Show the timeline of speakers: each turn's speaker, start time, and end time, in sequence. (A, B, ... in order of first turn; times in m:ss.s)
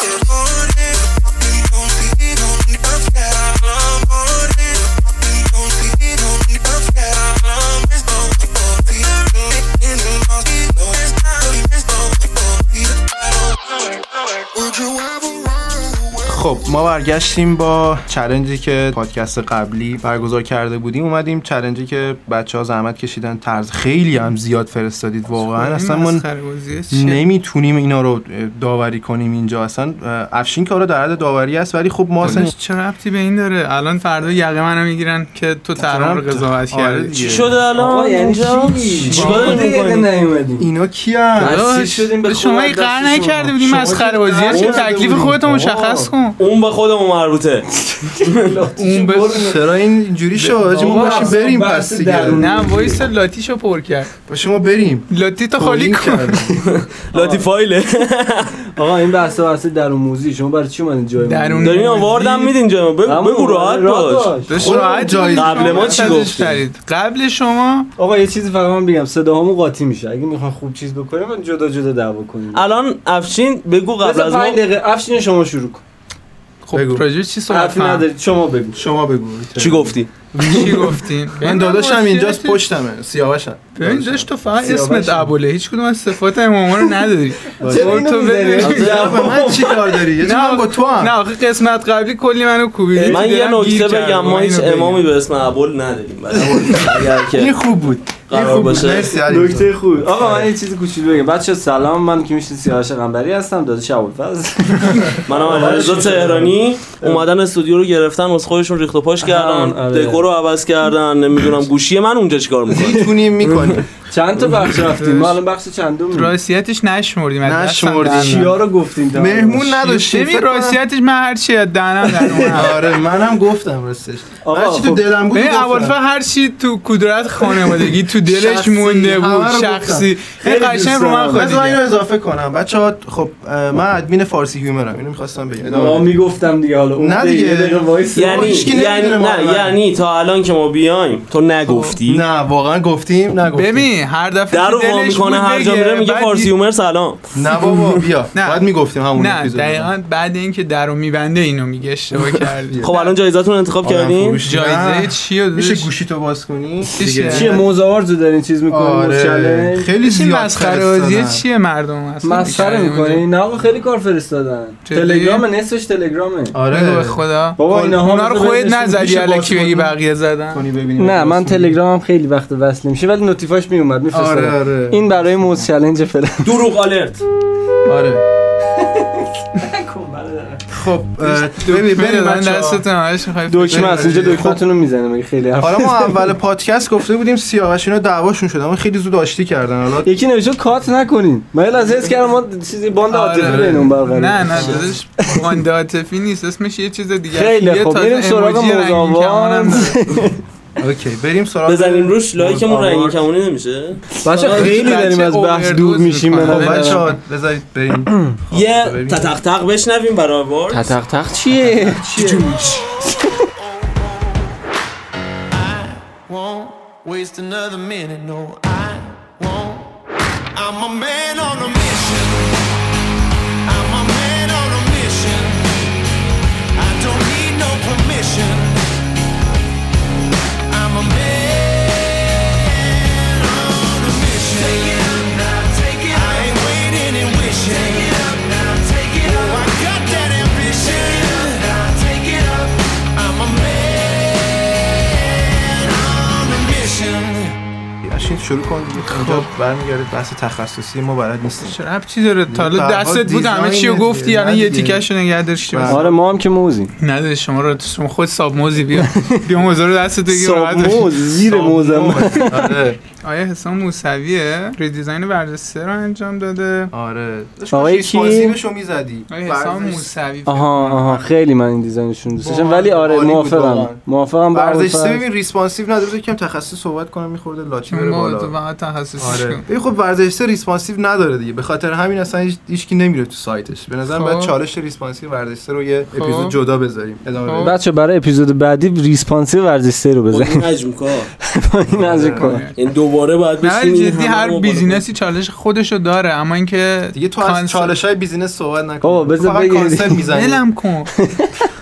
0:16.2-0:26.3 A
0:25.4-0:27.2 B
0:26.9-0:32.5 A
0:32.2-0:37.3 B
0:35.8-0:37.6 A
0:37.2-0:40.1 C
0:37.7-0:40.7 D
0:39.2-0:39.5 B
0:39.2-0:39.6 A
0:40.6-0:41.6 A
0:41.4-0:44.6 D
0:41.4-0:46.4 B
0:43.6-0:46.1 A
0:44.5-0:44.9 C
0:46.4-0:47.7 C
0:47.9-0:49.6 D
0:48.2-0:48.5 C
0:48.8-0:49.6 B
0:49.4-0:52.6 A
0:50.4-0:51.4 B
0:50.6-0:53.1 D
0:52.3-0:54.1 B
0:54.3-0:56.6 A
0:55.1-0:56.5 B
0:56.6-0:58.6 C
0:57.1-0:57.4 D
0:58.8-1:01.8 D
1:01.2-1:02.5 B
1:01.6-1:04.3 C
1:03.0-1:04.7 D
1:04.5-1:07.9 B
1:04.5-1:06.5 A
1:05.3-1:06.6 C
1:08.0-1:12.6 D
1:12.5-1:14.6 C
1:14.0-1:15.8 D
1:16.6-1:18.0 B
1:16.7-1:17.0 A
1:17.5-1:18.8 D
1:18.8-1:25.3 A
1:19.6-1:20.1 C
1:20.4-1:21.0 D
1:20.5-1:22.6 B
1:23.8-1:29.0 B
1:27.6-1:28.1 A
1:27.6-1:29.9 D
1:28.6-1:29.7 C
1:28.7-1:31.2 A
1:30.2-1:35.0 B
1:33.0-1:37.6 C
1:36.4-1:40.5 A
1:38.3-1:39.2 C
1:39.2-1:46.5 D
1:45.3-1:53.7 C
1:45.5-1:46.5 A
1:49.2-1:50.2 D
1:52.7-1:53.9 A
1:53.5-1:56.3 D
1:55.0-1:55.4 B
1:56.1-1:58.5 B
1:57.4-1:58.6 A
1:58.0-1:59.8 D
1:59.1-2:00.8 A
1:59.8-2:02.8 B
2:02.0-2:02.7 D
2:02.5-2:06.0 A
2:04.4-2:05.0 D
2:05.3-2:11.8 B
2:07.6-2:10.1 A
2:10.4-2:11.6 D
2:11.3-2:16.2 A
2:15.7-2:18.7 D
2:17.0-2:19.8 A
2:18.2-2:22.2 C
2:21.7-2:22.0 B
2:22.0-2:23.9 A
2:23.5-2:26.5 B
2:24.5-2:27.9 C
2:27.4-2:29.9 A
2:28.4-2:33.1 B
2:32.8-2:34.4 C
2:33.8-2:37.7 A
2:34.4-2:35.9 B
2:37.0-2:37.6 B
2:37.3-2:39.9 D
2:38.7-2:41.4 A
2:40.0-2:43.3 B
2:42.2-2:46.6 D
2:44.8-2:45.5 B
2:46.5-2:48.2 A
2:46.7-2:50.6 B
2:47.6-2:49.1 D
2:48.9-2:51.8 A
2:51.0-2:56.6 D
2:54.1-2:55.6 A
2:56.4-2:57.2 C
2:57.8-2:58.2 A
2:58.6-3:00.6 D
3:00.7-3:02.8 A
3:01.2-3:04.5 B
3:03.5-3:06.3 D
3:03.7-3:04.6 A
3:05.6-3:10.1 A
3:10.0-3:15.6 D
3:13.1-3:20.0 B
3:13.4-3:14.0 A
3:14.5-3:14.9 A
3:17.3-3:20.4 D
3:20.8-3:23.2 A
3:21.7-3:24.9 C
3:24.2-3:27.0 D
3:24.5-3:27.2 B
3:26.4-3:29.4 A
3:28.5-3:31.0 C
3:30.7-3:32.3 D
3:31.6-3:32.7 A
3:32.2-3:32.6 C
3:32.3-3:34.5 E
3:35.5-3:39.9 E
3:40.5-3:42.7 E
3:43.7-3:45.9 E
3:46.8-3:48.9 E
3:50.7-4:07.6 E
4:08.0-4:11.8 A
4:09.1-4:09.4 B
4:11.6-4:16.0 B
4:12.5-4:16.2 A
4:15.8-4:16.9 D
4:17.0-4:21.2 B
4:19.0-4:19.3 D
4:20.3-4:22.7 D
4:21.4-4:23.0 A
4:23.2-4:26.9 B
4:26.9-4:30.1 A
4:27.7-4:28.6 D
4:29.3-4:31.3 B
4:30.5-4:35.2 D
4:32.4-4:38.5 A
4:37.9-4:39.6 B
4:39.2-4:47.7 A
4:44.1-4:44.5 B
4:46.2-4:46.6 B
4:47.4-4:47.8 B
4:47.6-4:50.6 D
4:50.3-4:51.3 C
4:51.6-4:52.6 D
4:51.9-4:52.6 A
4:52.4-4:52.8 B
4:52.8-4:55.0 C
4:53.6-4:58.0 B
4:57.1-5:00.6 A
4:59.0-5:00.2 D
5:00.3-5:01.1 B
5:01.2-5:01.6 D